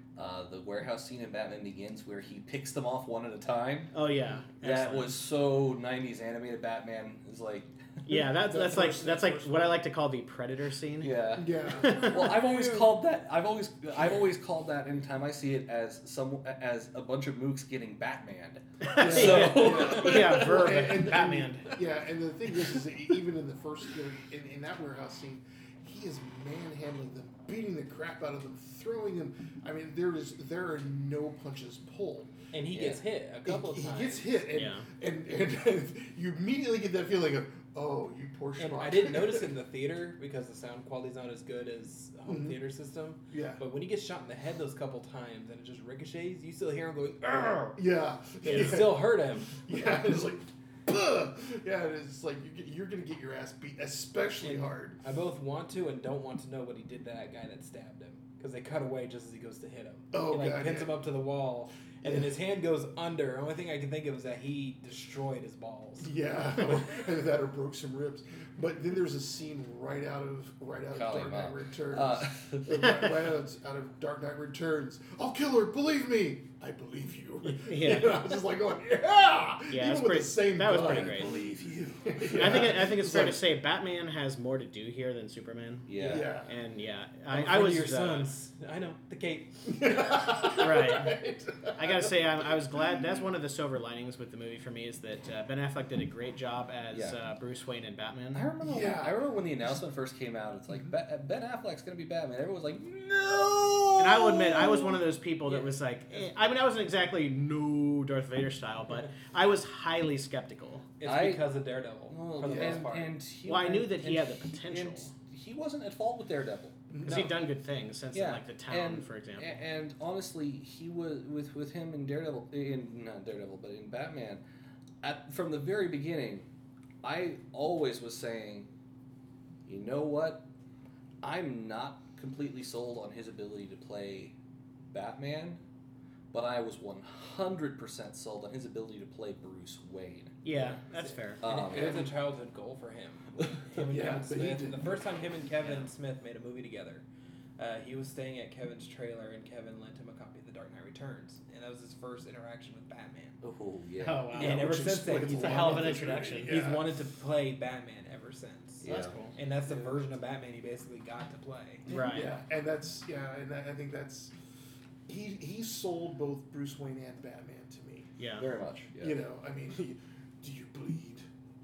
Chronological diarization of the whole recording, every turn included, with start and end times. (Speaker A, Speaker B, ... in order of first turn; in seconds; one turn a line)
Speaker A: 0.2-4.0
Speaker B: 3.9-5.2
Speaker A: 4.6-8.0
Speaker B: 8.1-12.3
Speaker C: 8.3-9.7
Speaker A: 11.0-20.9
Speaker C: 11.4-13.0
Speaker B: 18.8-21.7
Speaker C: 19.0-32.4
Speaker D: 32.5-34.5
Speaker A: 32.7-33.0
Speaker C: 33.5-39.5
Speaker B: 34.5-34.9
Speaker D: 38.6-47.8
Speaker C: 42.3-42.6
Speaker C: 43.3-43.6
Speaker C: 47.8-55.0
Speaker D: 48.4-49.7
Speaker D: 54.4-66.1
Speaker C: 60.1-61.0
Speaker C: 62.0-62.3
Speaker C: 66.0-83.4
Speaker A: 70.9-73.3
Speaker B: 77.5-78.3
Speaker B: 79.7-81.3
Speaker A: 80.7-81.8
Speaker B: 82.3-88.3
Speaker A: 85.9-86.3
Speaker C: 86.0-86.5
Speaker D: 87.3-90.0
Speaker C: 89.7-92.2
Speaker B: 90.6-91.2
Speaker B: 91.8-98.5
Speaker C: 92.7-93.2
Speaker A: 96.9-97.2
Speaker A: 98.3-105.0
Speaker C: 98.6-99.3
Speaker B: 104.0-110.9
Speaker D: 111.0-113.2
Speaker A: 111.0-111.4
Speaker A: 112.1-117.2
Speaker C: 112.4-112.9
Speaker B: 113.5-115.1
Speaker C: 116.9-117.4
Speaker B: 117.0-119.6
Speaker A: 118.1-124.4
Speaker A: 125.0-126.5
Speaker A: 127.0-128.7
Speaker A: 129.7-130.5
Speaker A: 131.2-134.4
Speaker A: 134.9-135.6
Speaker A: 136.3-140.4
Speaker B: 140.4-141.4
Speaker D: 140.5-147.0
Speaker A: 141.4-142.1
Speaker C: 141.6-142.1
Speaker C: 143.8-145.2
Speaker D: 147.6-153.4
Speaker A: 153.4-154.3
Speaker B: 154.0-156.5
Speaker C: 154.3-157.0
Speaker D: 154.3-161.9
Speaker A: 158.8-159.2
Speaker B: 158.8-159.4
Speaker C: 159.7-160.0
Speaker C: 161.9-164.3
Speaker B: 161.9-162.3
Speaker C: 165.1-168.1
Speaker B: 168.2-168.5
Speaker A: 168.4-169.2
Speaker C: 169.0-171.3